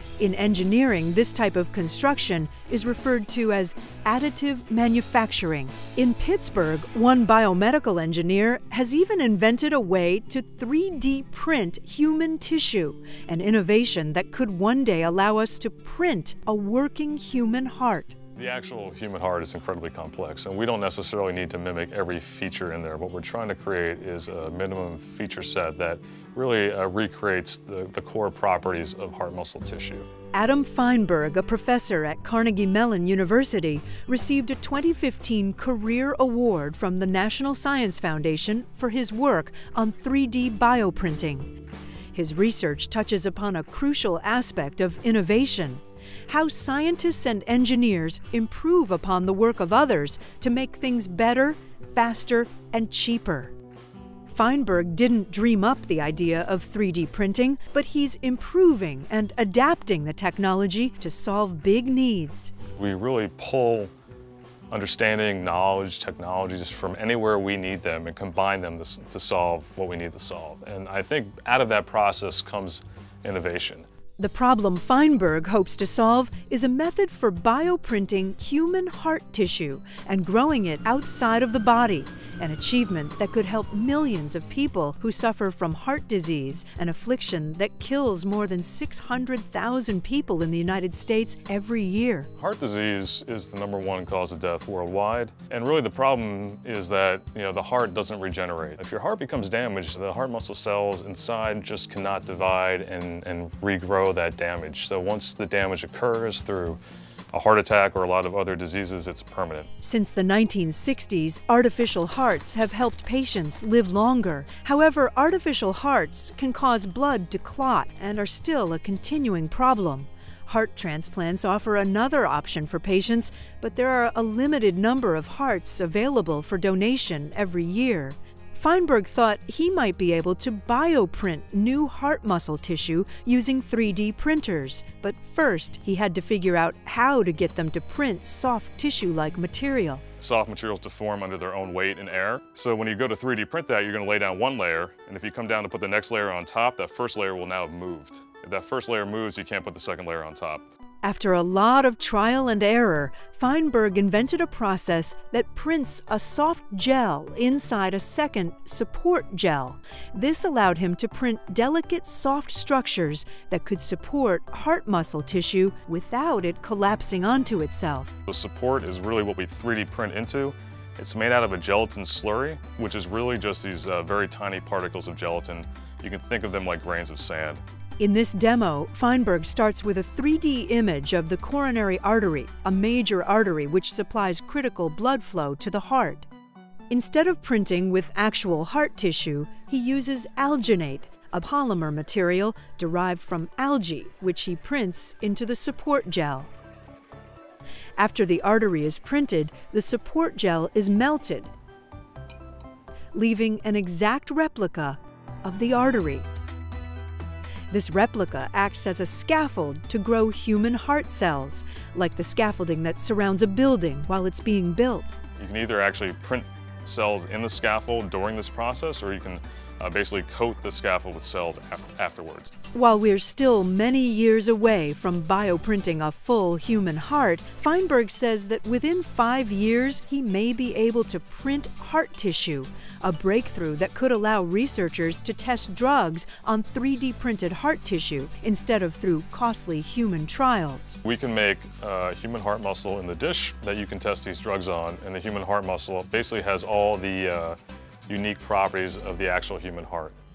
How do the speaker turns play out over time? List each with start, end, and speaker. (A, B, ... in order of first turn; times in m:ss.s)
0:00.2-0:18.2 A
0:18.4-0:30.0 B
0:30.3-0:41.5 A
0:42.1-0:53.5 A
0:54.3-1:02.5 A
1:02.8-1:03.9 B
1:04.7-1:13.8 B
1:14.2-1:32.3 A
1:32.4-1:46.8 B
1:47.3-1:49.7 B
1:49.8-2:20.0 A
2:20.2-2:30.7 B
2:31.0-2:48.1 A
2:48.3-2:57.6 B
2:58.0-3:06.3 A
3:06.9-3:16.5 A
3:18.0-3:21.5 A
3:23.1-3:26.3 A
3:27.7-3:35.1 A
3:35.4-3:42.5 B
3:42.7-4:01.0 A
4:01.0-4:07.6 B
4:08.1-4:10.2 B